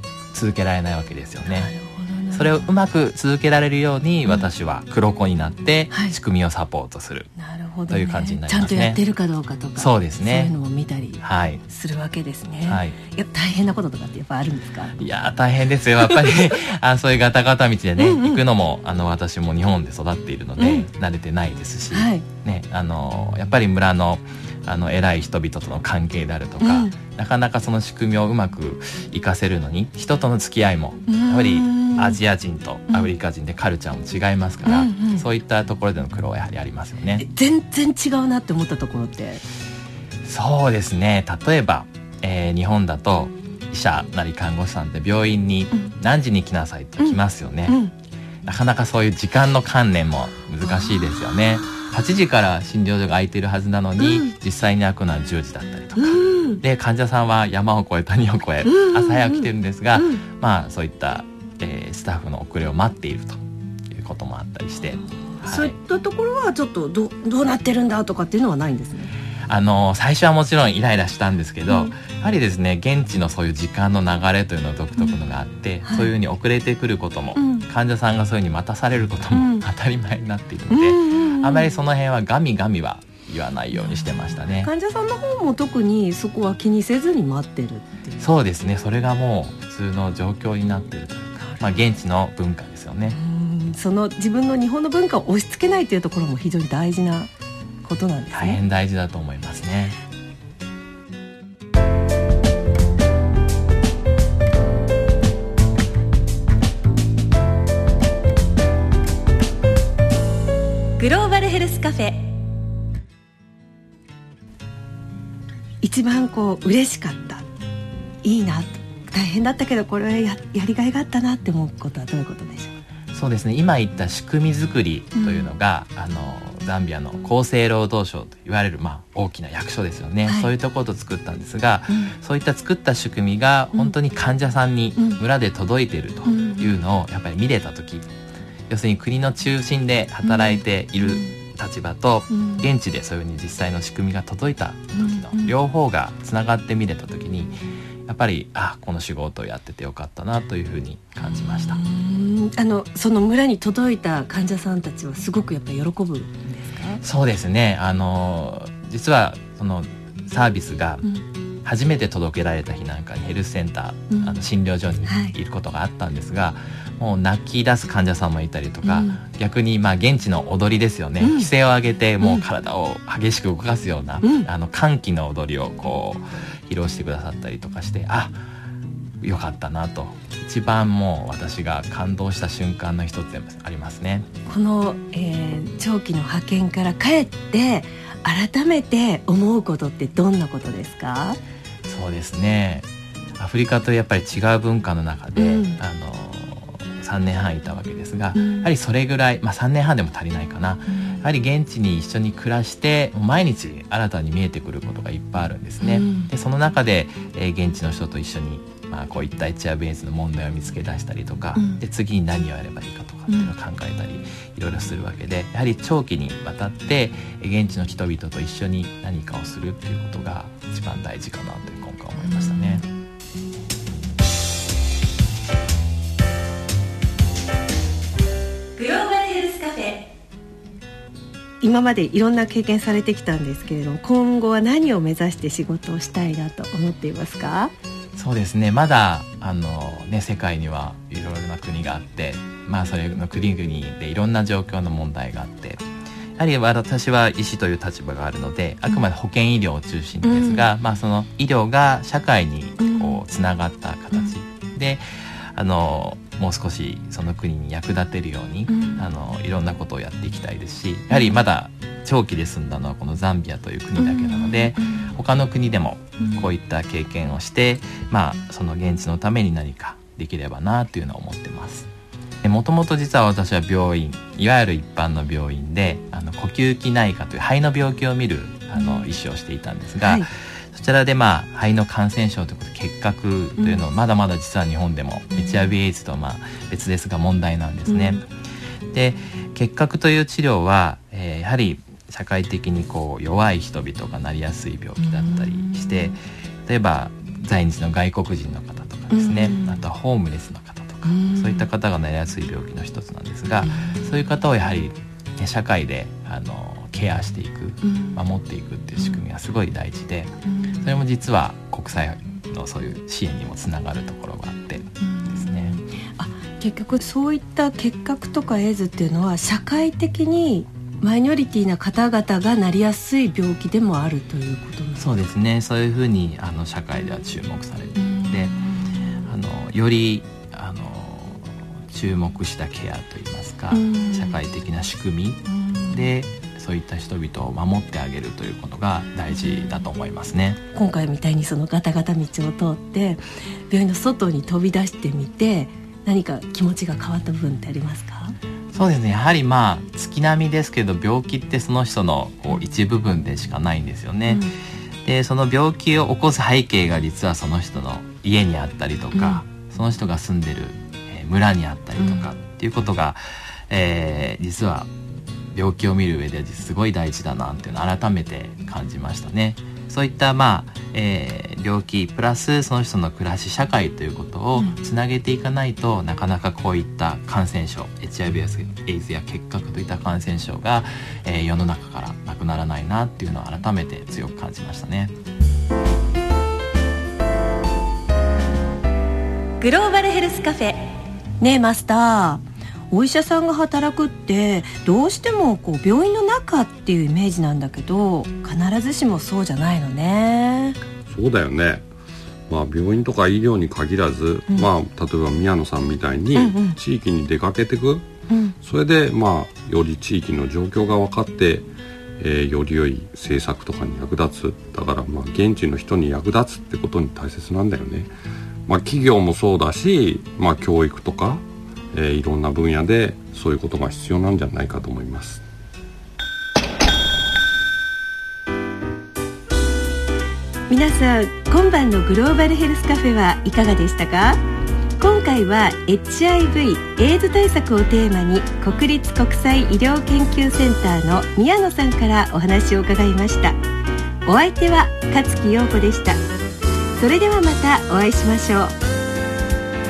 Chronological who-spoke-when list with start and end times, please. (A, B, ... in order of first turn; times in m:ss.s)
0:00.3-0:01.7 A
0:01.5-0:02.7 B
0:02.3-0:07.3 A
0:05.9-0:06.2 B
0:07.4-0:15.0 B
0:07.9-0:09.0 A
0:09.8-0:10.5 A
0:11.2-0:11.6 A
0:12.6-0:13.0 A
0:15.0-0:37.2 A
0:18.0-0:18.4 B
0:20.6-0:20.9 B
0:21.9-0:22.2 B
0:26.6-0:26.9 B
0:31.1-0:32.2 B
0:34.6-0:35.2 B
0:37.2-0:39.4 B
0:40.2-0:47.8 A
0:47.0-0:47.9 B
0:48.4-1:05.7 A
0:54.0-0:54.3 B
0:56.0-0:56.6 B
0:58.6-1:00.2 B
1:05.4-1:09.1 B
1:09.5-1:24.7 A
1:11.7-1:11.9 B
1:15.8-1:16.1 B
1:17.3-1:17.7 B
1:19.3-1:19.6 B
1:20.7-1:21.7 B
1:23.7-1:28.3 B
1:28.2-1:33.2 A
1:31.4-1:31.7 B
1:33.0-1:37.3 B
1:37.8-1:38.6 B
1:38.3-1:40.0 A
1:51.0-1:52.3 B
1:55.8-1:57.4 B
1:58.2-2:02.7 B
2:03.1-2:18.1 A
2:05.1-2:05.5 B
2:10.2-2:10.5 B
2:16.2-2:16.7 B
2:18.7-2:31.8 A
2:20.2-2:21.3 B
2:22.3-2:22.7 B
2:24.9-2:25.5 B
2:31.2-2:37.0 B
2:37.0-2:41.1 A
2:41.6-2:58.4 A
2:44.1-2:44.4 B
2:45.0-2:45.3 B
2:48.8-2:49.2 B
2:51.2-2:51.5 B
2:52.2-2:52.4 B
2:54.2-2:54.5 B
2:59.2-3:04.2 A
3:04.4-3:11.4 B
3:11.8-3:12.8 A
3:13.4-3:42.8 A
3:15.3-3:15.8 B
3:18.3-3:18.7 B
3:20.9-3:21.2 B
3:25.8-3:26.3 B
3:31.6-3:31.8 B
3:33.3-3:33.5 B
3:42.2-3:42.8 B
3:48.8-3:50.1 B
3:51.6-3:57.7 B
3:58.2-4:05.8 A
4:06.4-4:15.0 A
4:10.2-4:10.7 B
4:12.8-4:13.2 B
4:15.5-4:31.9 A
4:18.7-4:19.0 B
4:21.1-4:21.4 B
4:24.0-4:25.1 B
4:26.2-4:26.4 B
4:32.4-4:48.2 A
4:38.7-4:39.1 B
4:40.0-4:40.3 B
4:43.6-4:43.8 B
4:47.9-4:48.2 B
4:48.9-5:15.7 A
4:55.0-4:56.1 B
4:59.1-4:59.8 B
5:01.0-5:01.7 B
5:03.6-5:04.1 B
5:07.8-5:08.2 B
5:10.4-5:11.0 B
5:15.0-5:25.3 B
5:25.0-5:28.6 A
5:28.0-5:29.3 B
5:29.2-5:40.6 A
5:33.7-5:34.4 B
5:35.5-5:36.1 B
5:39.3-5:39.8 B
5:40.7-5:48.4 B
5:48.7-5:54.4 A
5:54.3-5:54.5 B
5:55.0-6:04.9 A
5:59.1-5:59.4 B
6:02.0-6:02.3 B
6:05.5-6:25.1 A
6:29.6-6:30.9 B
6:31.4-6:40.8 B
6:41.1-6:41.8 C
6:42.5-6:48.1 C
6:46.3-6:46.8 B
6:48.3-6:48.6 B
6:48.6-6:51.7 C
6:52.2-6:58.1 C
6:58.7-7:05.4 C
7:10.7-7:14.4 B
7:15.0-7:23.6 B
7:24.2-7:26.2 B
7:27.0-7:28.8 B